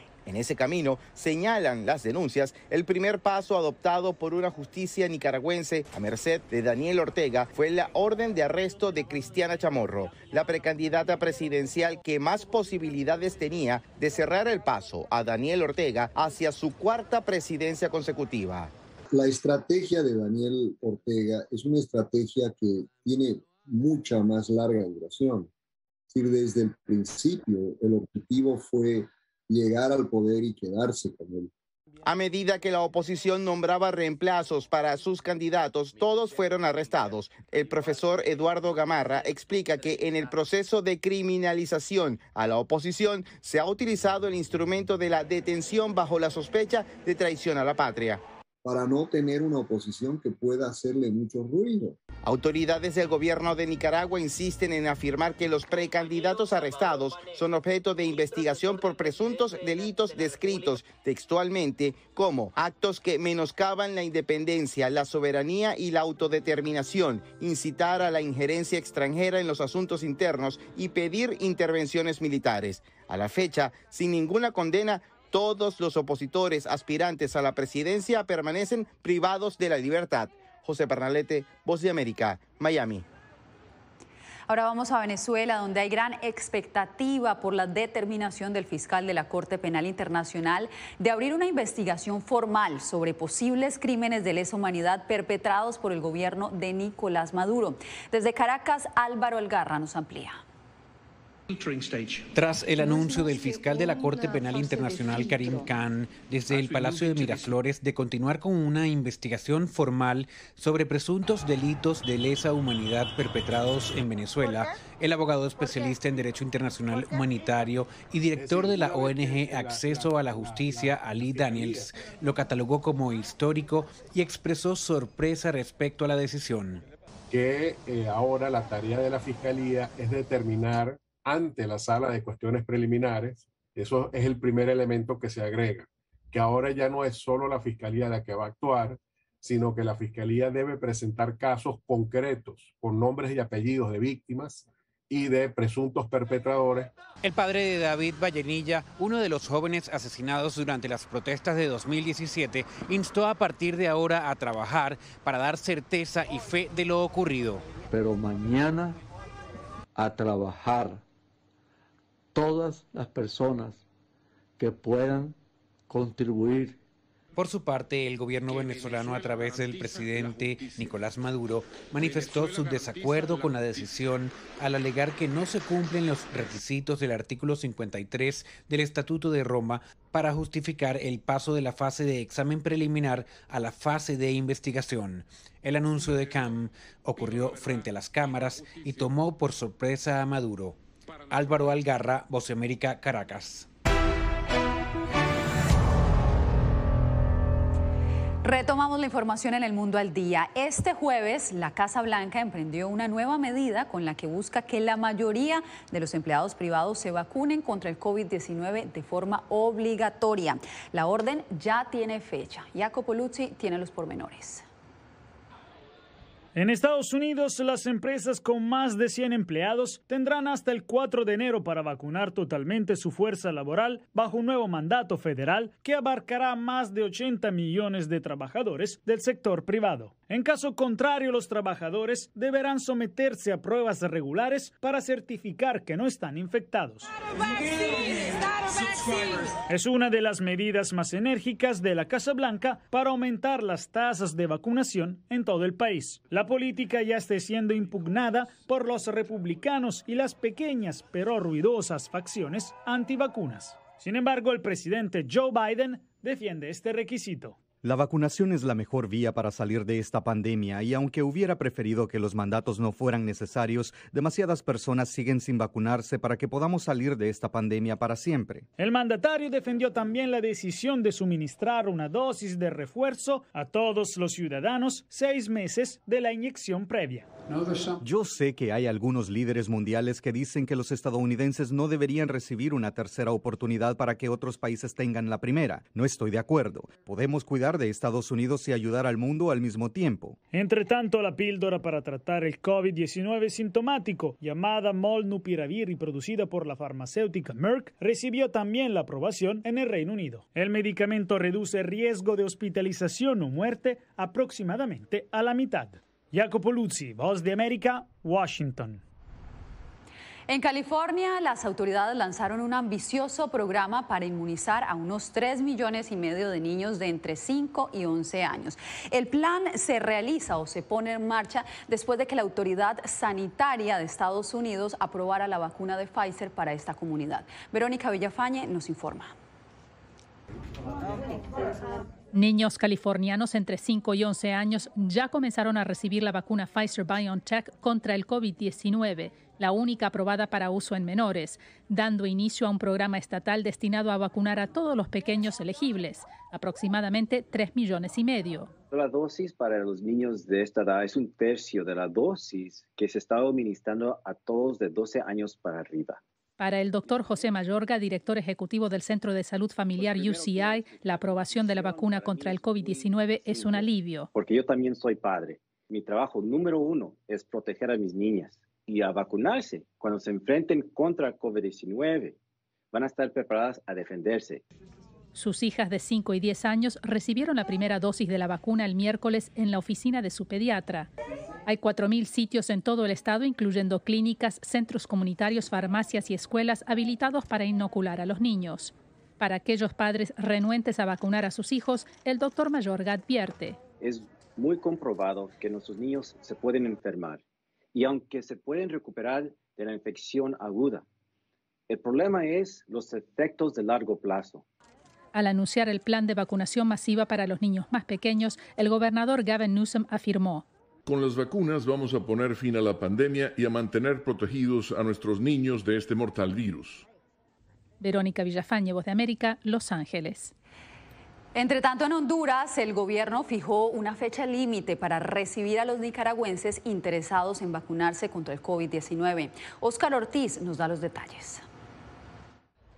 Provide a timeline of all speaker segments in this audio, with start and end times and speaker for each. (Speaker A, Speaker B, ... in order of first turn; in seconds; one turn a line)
Speaker A: 0.2-18.7
Speaker B: 19.1-25.5
Speaker B: 26.1-31.5
Speaker A: 32.0-48.2
Speaker B: 48.6-52.0
Speaker A: 52.2-83.0
Speaker C: 84.5-100.4
Speaker D: 102.3-126.8
Speaker E: 102.4-105.7
Speaker E: 106.4-107.6
Speaker E: 115.5-117.6
Speaker E: 118.3-121.7
Speaker F: 118.3-121.9
Speaker F: 127.3-146.9
Speaker D: 147.2-157.6
Speaker G: 157.9-158.7
Speaker H: 158.2-158.8
Speaker G: 160.0-160.4
Speaker H: 160.2-160.8
Speaker G: 162.4-163.7
Speaker H: 162.5-163.7
Speaker G: 164.6-165.1
Speaker H: 164.8-165.2
Speaker G: 165.9-166.6
Speaker H: 165.9-166.5
Speaker D: 167.3-193.7
Speaker E: 168.4-171.1
Speaker E: 171.8-174.6
Speaker E: 186.1-186.5
Speaker E: 187.1-189.6
Speaker E: 191.5-192.0
Speaker C: 198.4-214.6
Speaker I: 216.5-237.1
Speaker I: 239.7-257.6
Speaker J: 257.8-268.6
Speaker I: 268.8-277.3
Speaker J: 278.0-290.4
Speaker I: 290.5-309.0
Speaker C: 310.5-329.3
Speaker K: 332.3-348.7
Speaker G: 348.9-356.2
Speaker K: 356.6-364.3
Speaker G: 359.9-372.3
Speaker G: 372.9-374.6
Speaker K: 375.3-381.1
Speaker K: 381.6-393.8
Speaker G: 394.0-397.4
Speaker G: 397.9-401.0
Speaker G: 401.9-404.6
Speaker K: 405.3-410.6
Speaker E: 411.1-417.0
Speaker K: 418.0-420.5
Speaker C: 421.5-431.6